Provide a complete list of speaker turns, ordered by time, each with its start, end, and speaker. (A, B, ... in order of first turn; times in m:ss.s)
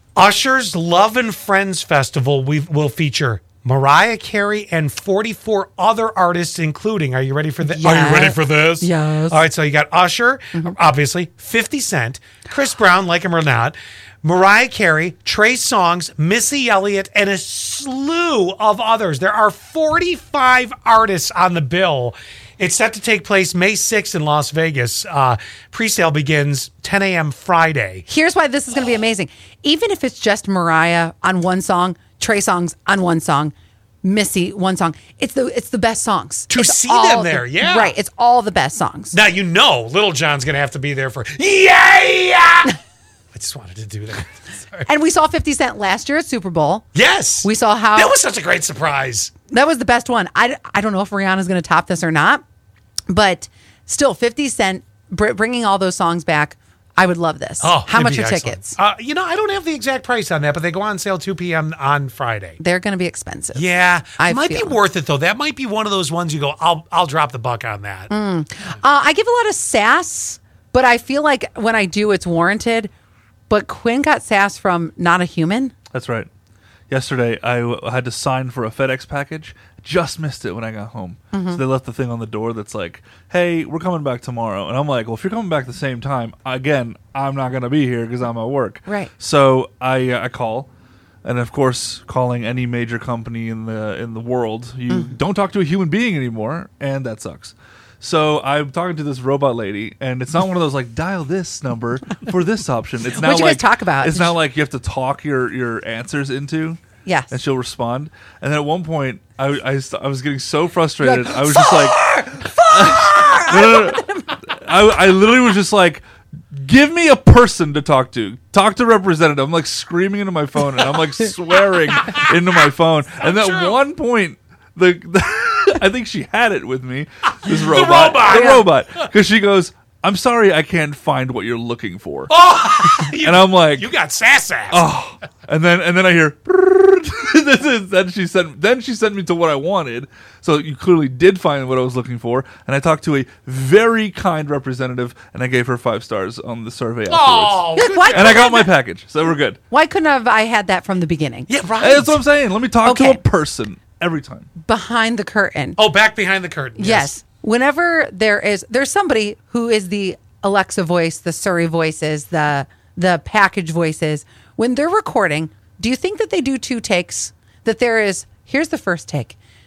0:00.2-0:28.0 A
0:07.6-0:09.4 B
0:28.1-0:39.2 B
0:36.5-0:37.9 A
0:39.1-0:42.8 A
0:43.3-0:44.9 A
0:44.9-0:46.9 B
0:46.9-0:49.3 A
0:47.4-0:48.1 B
0:49.5-0:52.4 B
0:53.1-0:58.8 B
0:57.6-1:02.6 A
1:02.6-1:04.8 B
1:03.5-1:08.1 A
1:08.1-1:12.9 B
1:13.5-1:15.7 B
1:15.9-1:16.3 C
1:16.9-1:30.7 C
1:21.3-1:21.6 B
1:28.8-1:29.1 B
1:31.2-1:46.8 C
1:34.9-1:35.2 B
1:43.1-1:44.3 B
1:47.0-1:47.3 B
1:47.3-1:56.0 C
1:51.0-1:54.4 B
1:56.5-2:12.3 C
2:03.2-2:03.8 A
2:07.4-2:08.6 A
2:08.3-2:08.6 B
2:12.3-2:14.8 A
2:13.0-2:13.9 C
2:14.7-2:29.6 C
2:27.1-2:28.5 A
2:27.7-2:28.7 B
2:29.7-2:31.5 B
2:31.5-2:32.2 A
2:31.8-2:34.5 C
2:32.8-2:33.2 B
2:34.6-2:35.8 B
2:35.8-2:37.1 A
2:36.8-2:49.4 B